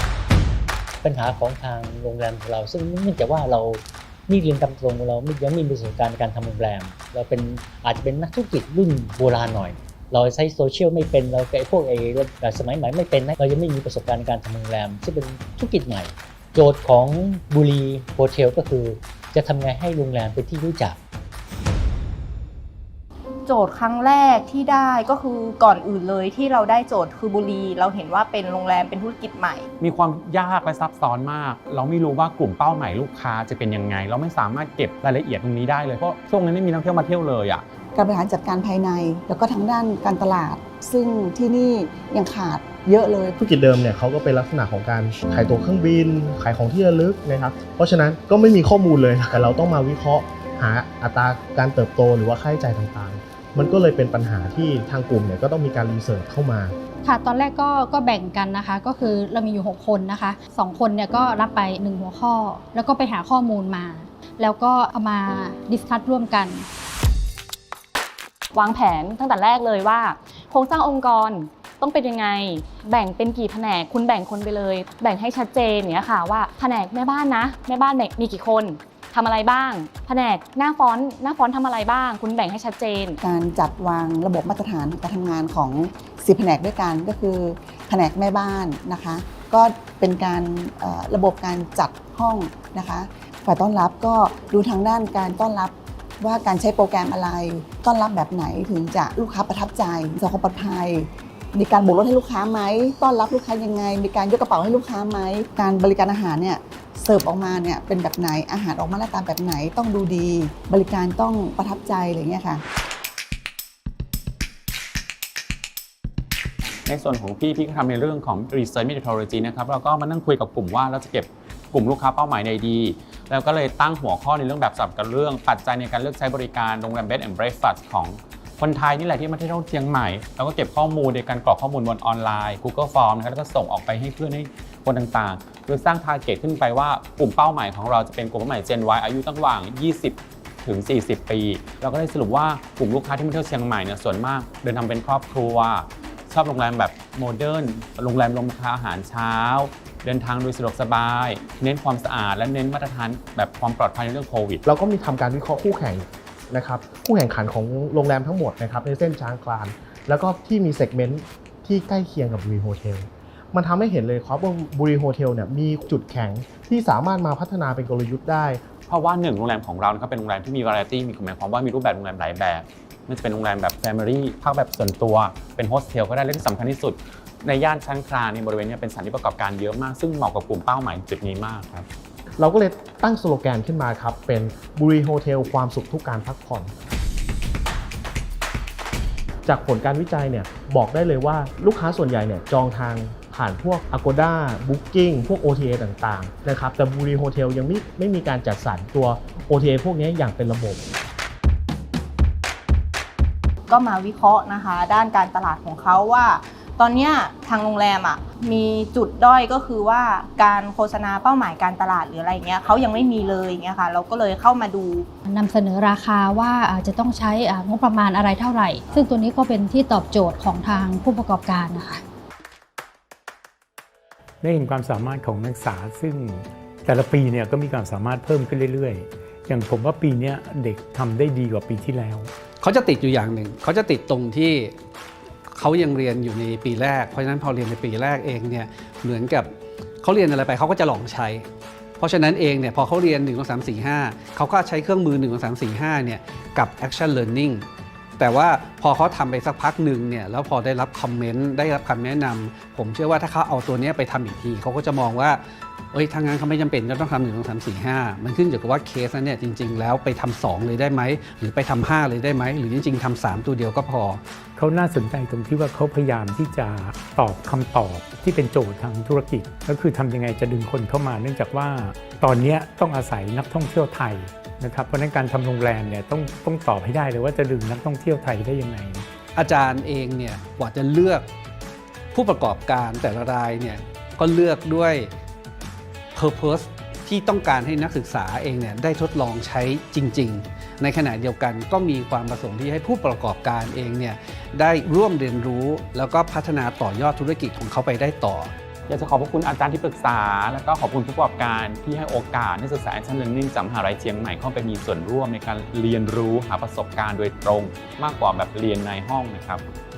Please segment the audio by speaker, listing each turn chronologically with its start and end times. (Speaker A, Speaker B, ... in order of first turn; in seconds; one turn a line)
Speaker A: 1.0-21.0
Speaker B: 23.4-29.7
Speaker C: 29.8-37.6
Speaker D: 37.9-43.4
Speaker E: 43.4-56.7
Speaker F: 57.0-66.7
Speaker G: 68.5-83.2
Speaker D: 83.2-112.6
Speaker C: 116.8-154.6
Speaker E: 154.6-168.6
Speaker C: 168.9-181.8
Speaker E: 182.4-186.7
Speaker E: 189.4-200.8
Speaker B: 203.7-215.1
Speaker F: 215.3-222.0
Speaker H: 224.4-232.3
Speaker I: 232.6-234.7
Speaker I: 235.5-239.5
Speaker I: 240.0-241.4
Speaker I: 242.0-247.7
Speaker I: 248.2-255.4
Speaker I: 255.9-264.2
Speaker H: 264.6-279.1
Speaker I: 279.4-281.2
Speaker I: 282.1-285.1
Speaker I: 286.1-298.5
Speaker C: 298.9-309.6